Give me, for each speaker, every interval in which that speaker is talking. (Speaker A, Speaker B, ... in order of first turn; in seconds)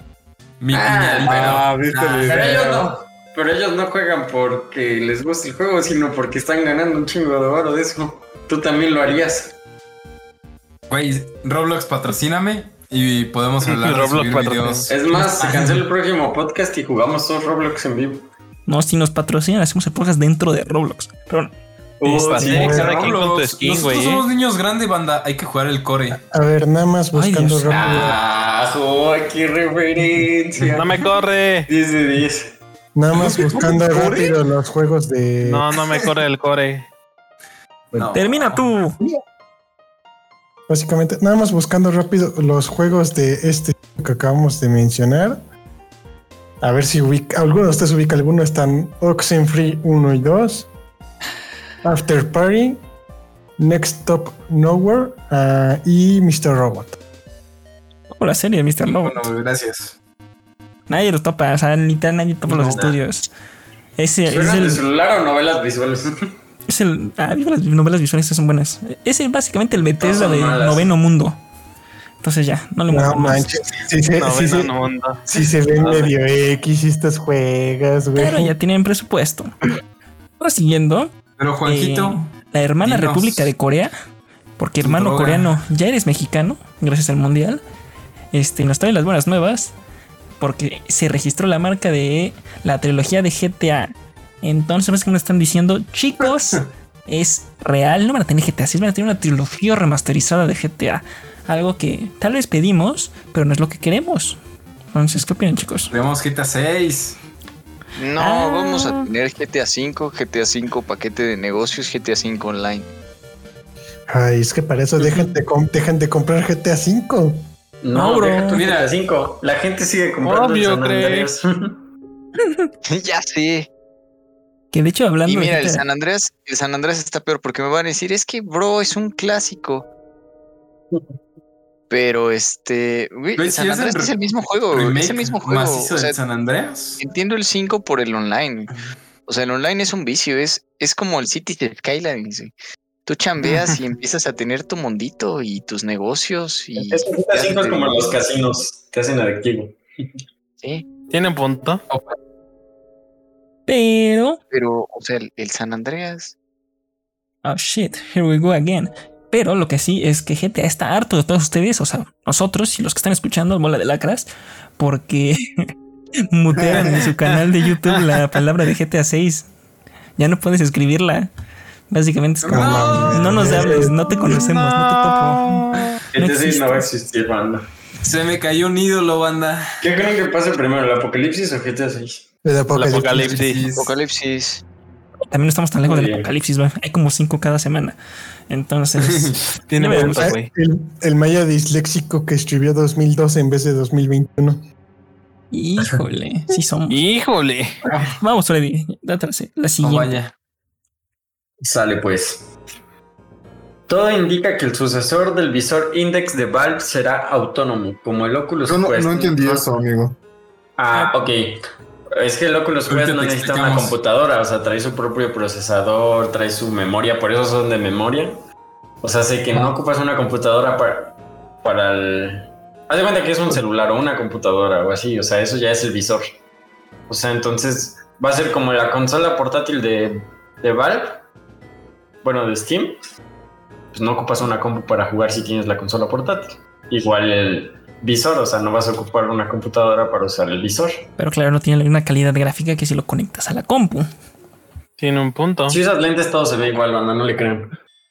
Speaker A: 0.6-2.8, 10.9-15.8, 22.4-26.2, 37.9-38.6, 58.8-60.0, 81.4-82.3, 82.8-83.5, 84.8-85.6, 105.9-107.2, 118.5-118.9, 133.4-134.2, 134.7-137.0, 151.9-152.1, 172.5-173.6, 178.0-179.8, 182.7-183.9, 189.0-189.4, 199.8-200.3, 212.9-213.9
Speaker B: 0.7-1.7, 2.2-9.5, 14.9-18.3, 22.0-22.9, 27.7-31.1, 31.7-32.5, 62.6-63.0, 64.3-66.3, 70.0-70.9, 117.8-121.8, 146.8-150.2, 176.1-177.7, 179.8-182.2, 185.8-186.3, 201.6-202.5, 203.9-209.7, 210.8-218.4, 219.0-226.3, 227.1-231.2, 232.2-233.0, 233.9-241.0, 245.7-247.7
Speaker C: 1.2-2.9, 33.1-34.4, 208.6-210.2
Speaker D: 13.6-14.9, 22.0-24.2, 30.7-31.7, 35.4-36.9, 74.2-75.2, 120.2-121.3, 151.1-151.8, 174.0-175.8, 182.8-183.7, 189.7-190.5, 196.9-197.8, 245.0-245.8
Speaker E: 18.7-21.5, 27.1-28.1, 38.1-39.0, 58.2-59.3, 60.9-63.3, 64.0-64.8, 66.7-71.4, 72.2-73.5, 78.2-79.5, 80.4-81.1, 81.6-83.9, 84.6-87.6, 88.3-89.7, 90.4-104.4, 104.9-105.9, 108.2-109.1, 117.9-118.7, 124.7-125.8, 153.7-154.4, 157.4-165.7, 166.3-169.5, 170.2-171.3, 171.9-176.9, 185.3-188.0, 188.5-190.3, 195.5-197.0, 198.2-200.1, 241.2-244.1
Speaker F: 22.5-22.9, 26.1-28.2, 32.9-35.7, 40.7-45.4, 46.6-50.7, 51.8-52.8, 53.6-57.0, 72.9-74.7, 75.3-78.5, 114.1-117.5, 172.5-173.9, 182.4-183.4, 189.9-194.6
Speaker G: 108.0-112.9, 122.9-123.7, 125.2-129.9, 131.9-136.2, 137.0-138.7, 139.3-142.5, 143.1-148.1, 154.5-156.3, 183.7-184.6